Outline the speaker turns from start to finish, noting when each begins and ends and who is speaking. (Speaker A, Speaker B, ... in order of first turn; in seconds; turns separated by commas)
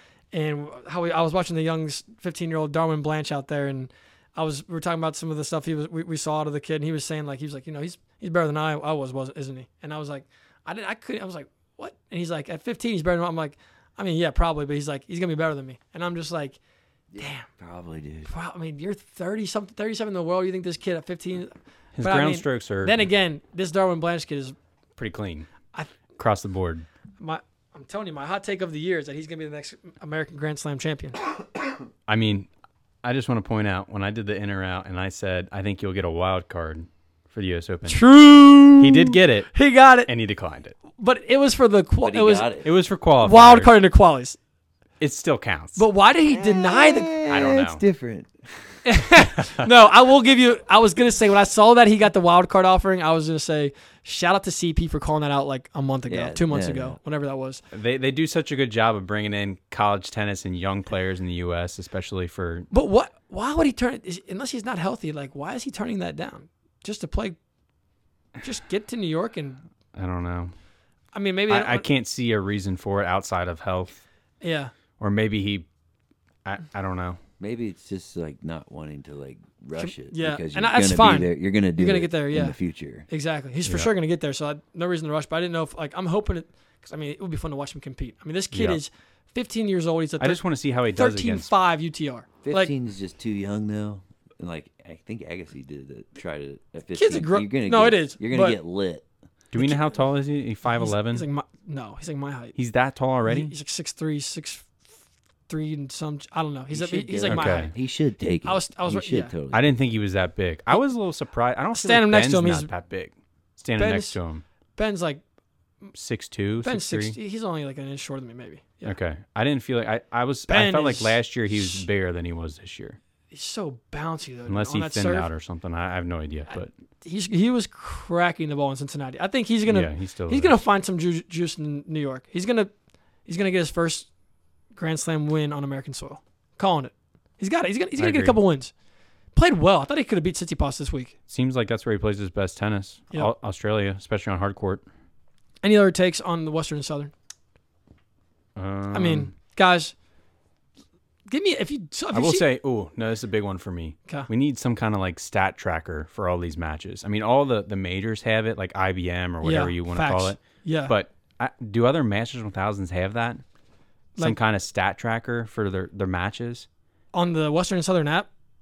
Speaker A: 0.3-16.6, Speaker B: 17.1-18.3, Speaker A: 17.2-17.5, Speaker A: 18.3-24.6, Speaker C: 22.0-23.0, Speaker C: 25.0-25.5, Speaker C: 26.2-26.9, Speaker A: 27.2-31.2, Speaker C: 32.1-32.5, Speaker C: 33.0-38.1, Speaker A: 37.9-40.1, Speaker C: 38.6-39.5, Speaker C: 40.1-40.8, Speaker A: 41.0-42.5, Speaker B: 42.0-42.7, Speaker C: 42.6-43.8, Speaker A: 43.2-44.4, Speaker C: 45.0-45.8, Speaker A: 45.8-47.2, Speaker B: 46.3-48.5, Speaker C: 47.3-47.8, Speaker A: 48.9-57.6, Speaker C: 49.4-49.6, Speaker B: 56.1-57.0, Speaker C: 57.7-62.7, Speaker A: 62.7-67.4, Speaker A: 68.4-69.6, Speaker C: 70.0-70.5, Speaker A: 71.1-71.9, Speaker C: 71.5-74.0, Speaker A: 74.4-74.7, Speaker C: 75.0-75.7, Speaker C: 76.5-77.2, Speaker B: 77.4-83.1, Speaker A: 79.8-82.6, Speaker A: 83.1-90.4, Speaker C: 88.5-88.8, Speaker C: 90.2-91.5, Speaker A: 91.0-92.7, Speaker B: 92.4-99.0, Speaker A: 97.0-98.6, Speaker C: 99.5-101.2, Speaker A: 99.6-100.0, Speaker A: 100.7-102.6, Speaker C: 102.6-103.5, Speaker A: 103.3-104.7, Speaker A: 105.5-107.7, Speaker B: 106.7-109.7, Speaker C: 107.3-107.7, Speaker A: 108.4-109.3, Speaker C: 109.5-114.4, Speaker A: 111.8-112.7, Speaker A: 113.8-114.2, Speaker A: 114.8-115.2, Speaker C: 115.9-117.2, Speaker A: 116.6-119.0, Speaker C: 118.8-123.0, Speaker A: 120.5-121.8, Speaker A: 123.3-125.3, Speaker C: 124.5-126.7, Speaker A: 127.0-132.7, Speaker C: 129.7-130.6, Speaker A: 133.3-134.1, Speaker A: 134.8-138.7, Speaker C: 138.0-138.4, Speaker A: 139.3-141.1, Speaker C: 141.3-144.8, Speaker A: 145.6-147.1, Speaker C: 148.6-149.3, Speaker A: 148.9-149.9, Speaker A: 151.3-152.4, Speaker C: 152.1-163.4, Speaker A: 159.4-160.9, Speaker C: 164.2-166.7, Speaker A: 167.1-168.3